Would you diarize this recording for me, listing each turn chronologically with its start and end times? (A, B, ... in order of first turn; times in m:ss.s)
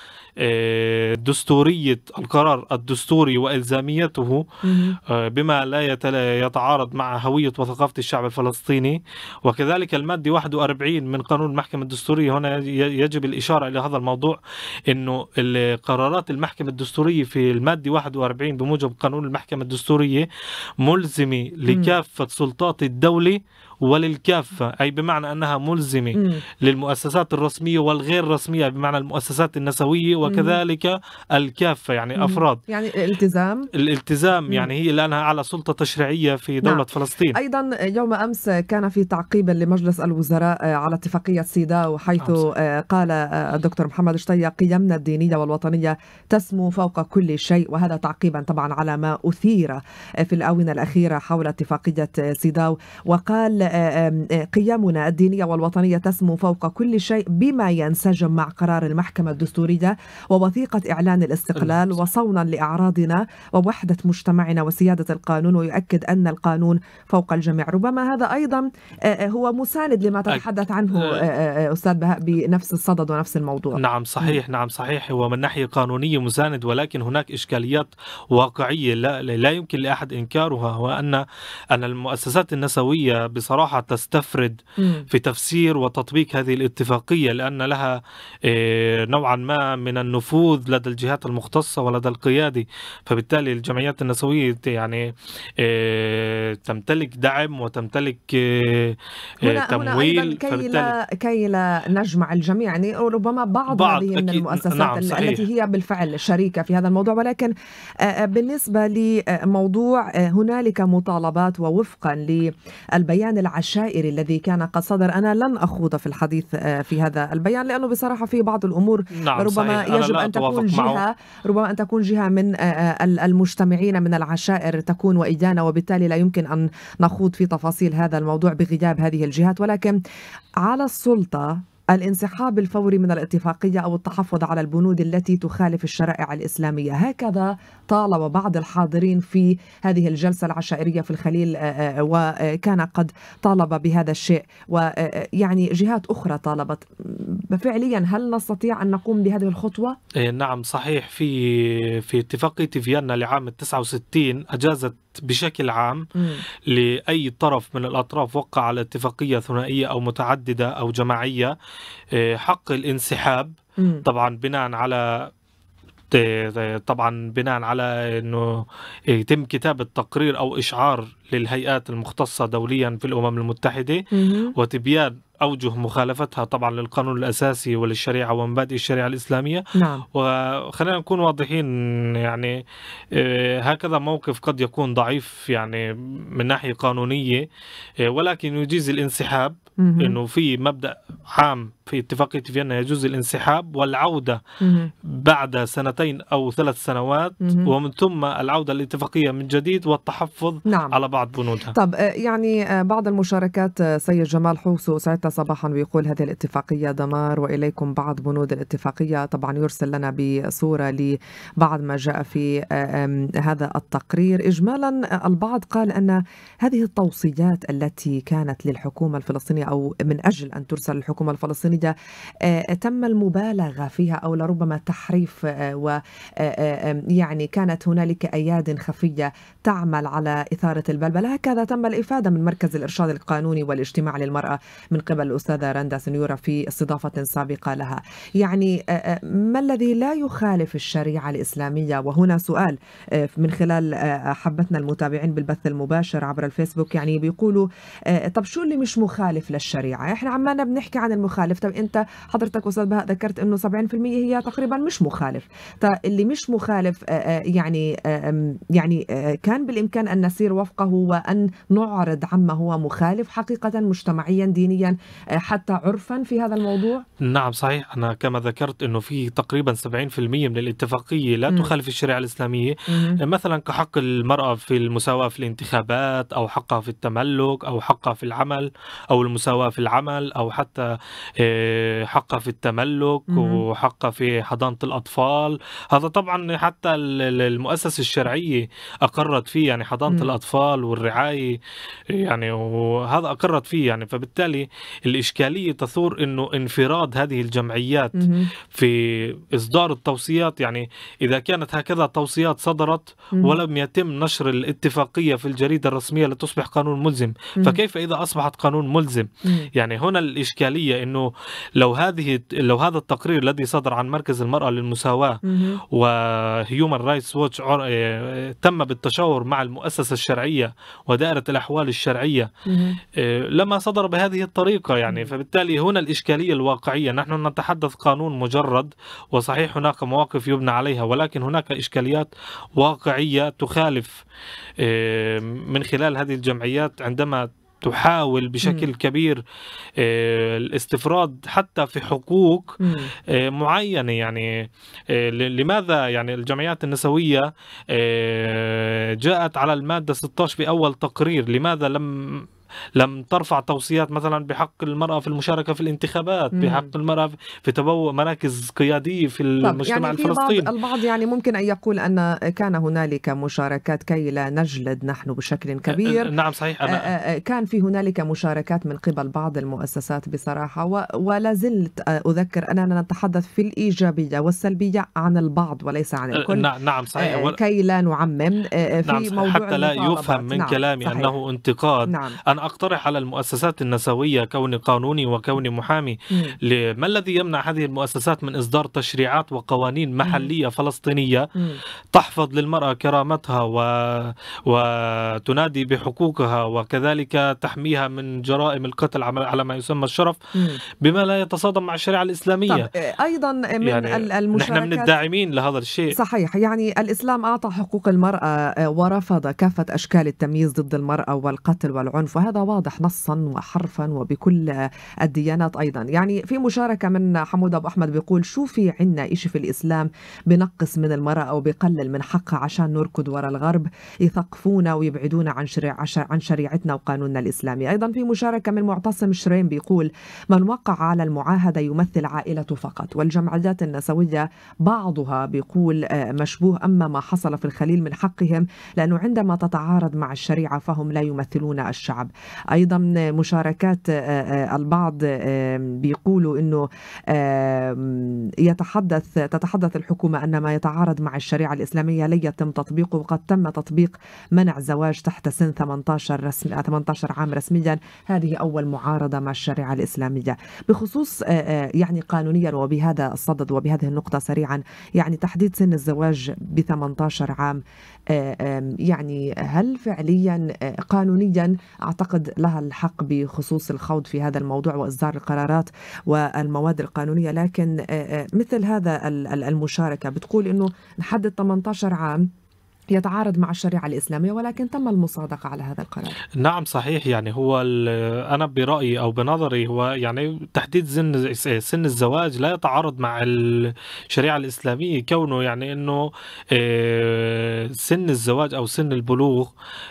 0:00.4-0:04.4 A
0:04.6-0:05.0 B
0:05.0-0:20.3 A
0:20.8-0:32.6 A
0:21.7-0:21.9 B
0:26.1-0:26.4 B
0:30.2-0:30.6 B
0:32.2-0:33.7 B
0:33.7-0:37.4 A
0:36.6-1:14.4 B
0:42.2-0:42.5 A
1:01.6-1:01.9 A
1:10.3-1:11.1 A
1:13.7-1:35.0 A
1:24.8-1:25.1 B
1:35.6-1:40.9 A
1:39.4-1:47.5 B
1:43.7-1:45.4 A
1:48.0-2:10.0 B
1:59.1-2:01.0 A
2:10.6-2:30.0 B
2:30.2-2:36.0 A
2:36.2-2:36.4 B
2:36.7-2:41.5 A
2:42.1-2:45.3 A
2:43.8-2:44.0 B
2:46.1-3:02.6 A
2:54.1-2:54.5 B
2:59.7-3:00.0 B
3:03.1-3:05.8 A
3:06.3-3:07.5 A
3:08.0-3:14.4 A
3:09.8-3:10.2 B
3:14.6-3:14.9 B
3:15.0-3:21.7 A
3:17.4-3:17.7 B
3:20.7-3:20.9 B
3:21.7-3:41.9 B
3:42.4-4:27.0 B
4:27.2-4:51.6 A
4:32.9-4:33.2 B
4:43.3-4:43.6 B
4:52.1-5:22.5 A
4:58.1-4:58.5 B
5:09.4-5:09.7 B
5:15.4-5:15.8 B
5:22.6-5:23.0 B
5:23.1-5:34.2 A
5:34.8-5:39.4 A
5:38.6-5:38.9 B
5:40.0-5:52.4 A
5:42.8-5:43.1 B
5:53.0-6:00.7 A
5:56.5-5:56.9 B
5:59.6-6:06.3 B
6:05.9-6:07.1 A
6:06.9-6:21.3 B
6:16.3-6:17.6 A
6:19.0-6:31.5 A
6:22.1-6:22.4 B
6:26.3-6:26.6 B
6:30.2-6:30.5 B
6:32.1-6:40.4 A
6:40.6-6:40.8 B
6:41.0-6:42.9 A
6:42.7-6:45.1 B
6:43.8-6:46.1 A
6:46.1-7:47.8 B
7:48.3-8:02.5 B
8:03.1-8:06.4 B
8:06.6-8:19.7 A